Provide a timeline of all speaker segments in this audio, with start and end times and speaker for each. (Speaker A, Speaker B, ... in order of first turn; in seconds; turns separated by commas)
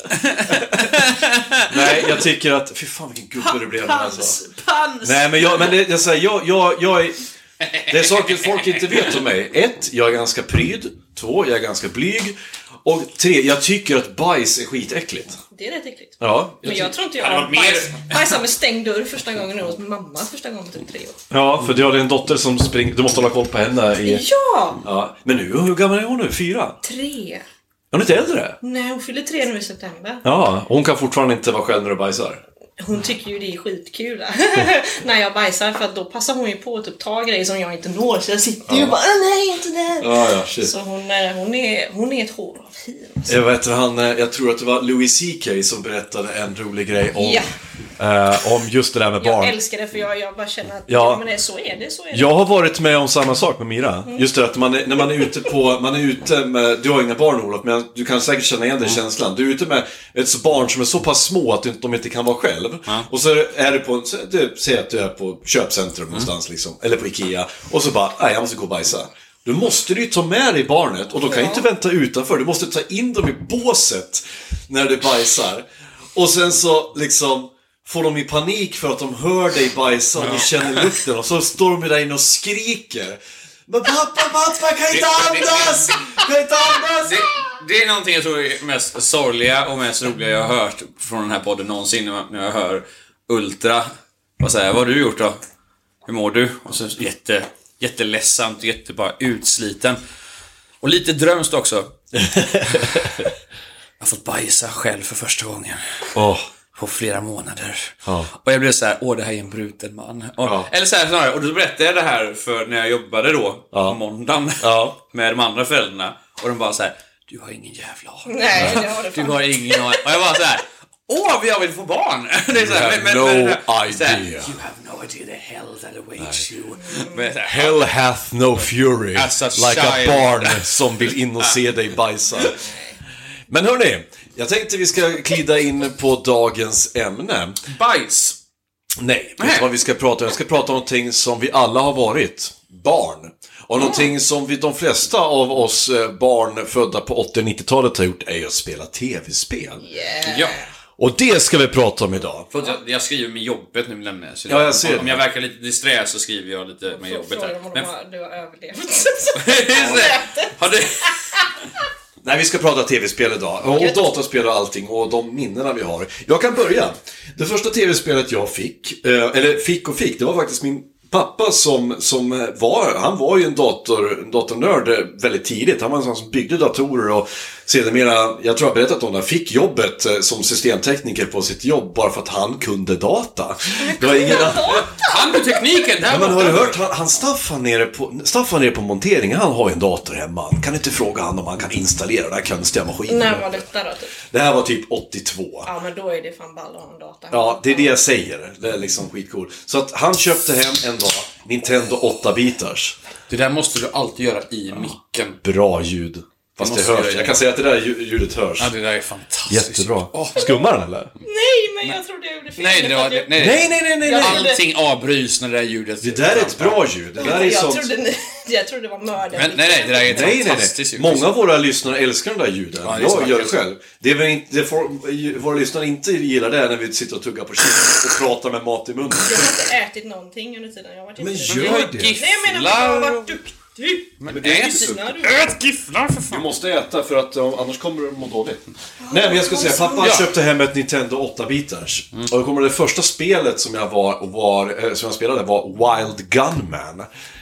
Speaker A: 0.1-2.1, Speaker B: 0.5-0.9, Speaker B: 1.7-4.4, Speaker A: 3.9-5.7, Speaker C: 4.4-5.0, Speaker B: 5.0-7.2, Speaker A: 7.7-9.0, Speaker B: 7.9-15.4, Speaker C: 15.5-21.2, Speaker B: 16.2-16.9, Speaker A: 17.2-18.4, Speaker B: 21.3-24.2, Speaker C: 24.0-24.8, Speaker B: 24.8-26.8, Speaker C: 26.8-27.4, Speaker B: 27.9-28.6, Speaker C: 28.6-30.2, Speaker B: 30.2-32.4, Speaker C: 32.8-43.3, Speaker B: 38.7-38.9, Speaker B: 40.0-40.7, Speaker B: 43.3-47.5, Speaker C: 47.2-47.5, Speaker B: 48.0-49.6, Speaker C: 49.2-52.3, Speaker B: 50.9-51.2, Speaker B: 52.1-87.3, Speaker C: 71.2-71.7, Speaker A: 80.2-80.9, Speaker A: 84.9-86.2, Speaker A: 87.0-93.9, Speaker A: 94.4-95.3, Speaker A: 96.1-100.0, Speaker A: 100.8-102.0, Speaker B: 102.2-103.3, Speaker A: 102.7-103.1, Speaker A: 104.0-106.2, Speaker B: 106.1-106.5, Speaker A: 106.8-127.8, Speaker B: 108.1-108.3, Speaker B: 110.4-110.7, Speaker B: 113.7-114.0, Speaker B: 114.6-115.0, Speaker C: 118.3-120.0, Speaker B: 122.5-124.6, Speaker B: 126.2-126.5, Speaker C: 126.8-127.3, Speaker B: 127.4-132.6, Speaker A: 129.1-130.8, Speaker C: 132.5-133.0, Speaker B: 133.5-137.6, Speaker A: 137.7-138.4, Speaker B: 139.0-149.8, Speaker A: 139.4-139.7, Speaker C: 149.8-150.7, Speaker A: 150.2-150.6, Speaker B: 151.0-152.5, Speaker A: 152.5-157.9, Speaker B: 154.5-155.2, Speaker C: 156.9-161.1, Speaker A: 159.4-161.2, Speaker B: 162.2-184.9, Speaker C: 163.8-164.0, Speaker C: 183.8-185.6, Speaker A: 184.9-186.8, Speaker B: 186.1-193.6, Speaker C: 193.1-194.1, Speaker B: 194.3-195.7, Speaker C: 195.7-198.0, Speaker B: 197.3-203.0, Speaker A: 203.3-205.4, Speaker B: 205.4-208.7, Speaker A: 206.6-207.4, Speaker A: 208.6-210.4, Speaker B: 209.5-211.1, Speaker C: 211.2-214.6, Speaker A: 212.6-216.8, Speaker B: 213.4-214.5, Speaker B: 216.0-217.9, Speaker C: 217.2-220.3, Speaker A: 219.3-221.4, Speaker B: 220.0-229.5, Speaker A: 222.8-223.6, Speaker C: 229.2-235.6, Speaker B: 231.2-232.2, Speaker A: 231.5-233.4, Speaker A: 234.2-236.5, Speaker B: 234.3-235.0, Speaker B: 236.3-247.1, Speaker C: 239.0-240.1, Speaker A: 240.0-240.3